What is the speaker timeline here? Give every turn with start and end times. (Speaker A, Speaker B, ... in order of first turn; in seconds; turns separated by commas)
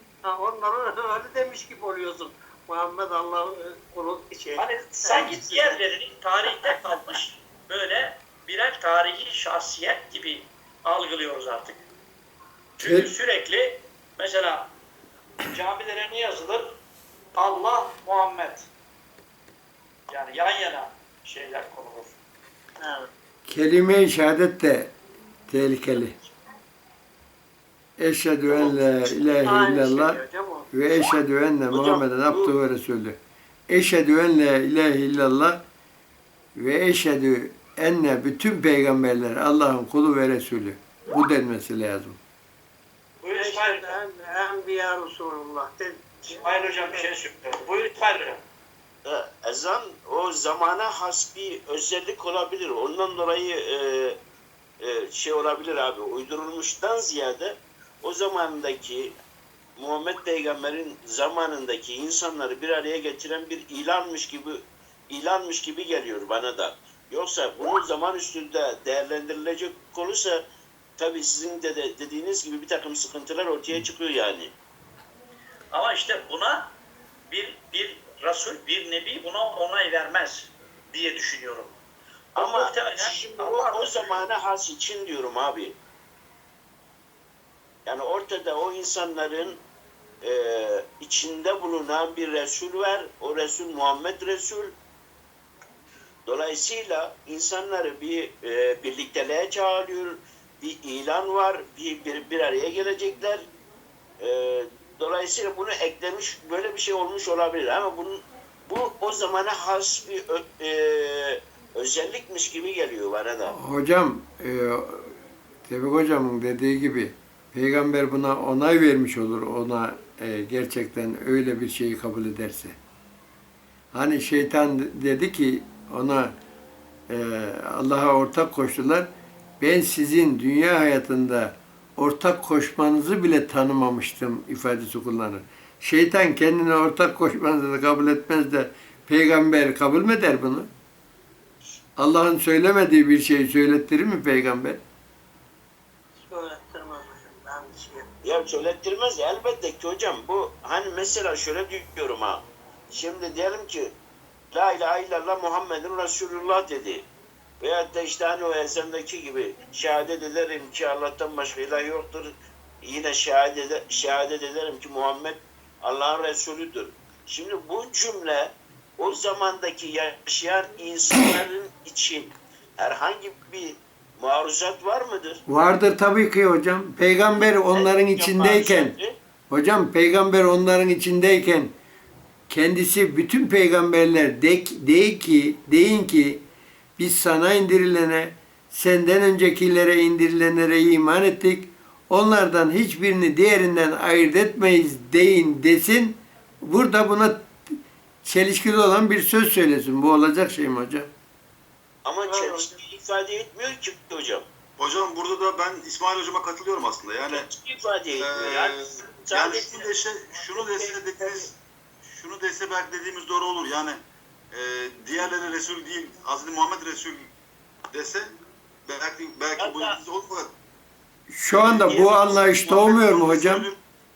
Speaker A: 0.2-5.8, Speaker B: 4.6-11.8, Speaker B: 12.8-14.7, Speaker C: 12.8-13.1, Speaker B: 15.5-16.8, Speaker B: 17.4-18.7, Speaker B: 20.1-22.2, Speaker A: 22.8-23.1, Speaker C: 23.5-24.9, Speaker C: 25.5-26.2, Speaker C: 28.0-33.2, Speaker D: 28.4-29.3, Speaker A: 29.4-30.7, Speaker D: 31.7-32.5, Speaker C: 33.7-35.6, Speaker C: 36.5-42.2, Speaker B: 43.2-44.0, Speaker A: 43.4-47.1, Speaker B: 46.3-48.4, Speaker D: 49.0-54.2, Speaker D: 54.8-59.1, Speaker D: 59.8-70.4, Speaker D: 71.0-74.5, Speaker B: 75.7-76.7, Speaker B: 77.3-81.7, Speaker D: 82.3-85.8, Speaker B: 82.4-84.2, Speaker D: 87.9-89.6, Speaker D: 90.2-94.7, Speaker D: 96.2-103.5, Speaker D: 104.2-113.5, Speaker C: 113.5-122.8, Speaker C: 123.9-126.3, Speaker C: 127.1-129.1, Speaker C: 129.6-140.7, Speaker C: 142.0-144.8, Speaker A: 146.2-148.1, Speaker D: 148.2-153.9, Speaker D: 154.5-157.1, Speaker D: 157.6-175.4, Speaker C: 175.5-179.0, Speaker D: 177.3-179.2, Speaker C: 179.5-181.7, Speaker C: 182.5-186.4, Speaker C: 187.0-197.5, Speaker C: 198.2-201.1, Speaker D: 202.1-204.4, Speaker A: 202.2-202.7, Speaker E: 204.8-207.5, Speaker D: 207.2-211.5, Speaker E: 208.2-214.0, Speaker E: 214.5-217.3, Speaker E: 217.9-218.3, Speaker E: 218.9-220.5, Speaker D: 219.6-220.0, Speaker C: 221.3-223.7, Speaker E: 221.5-223.8, Speaker D: 221.9-222.3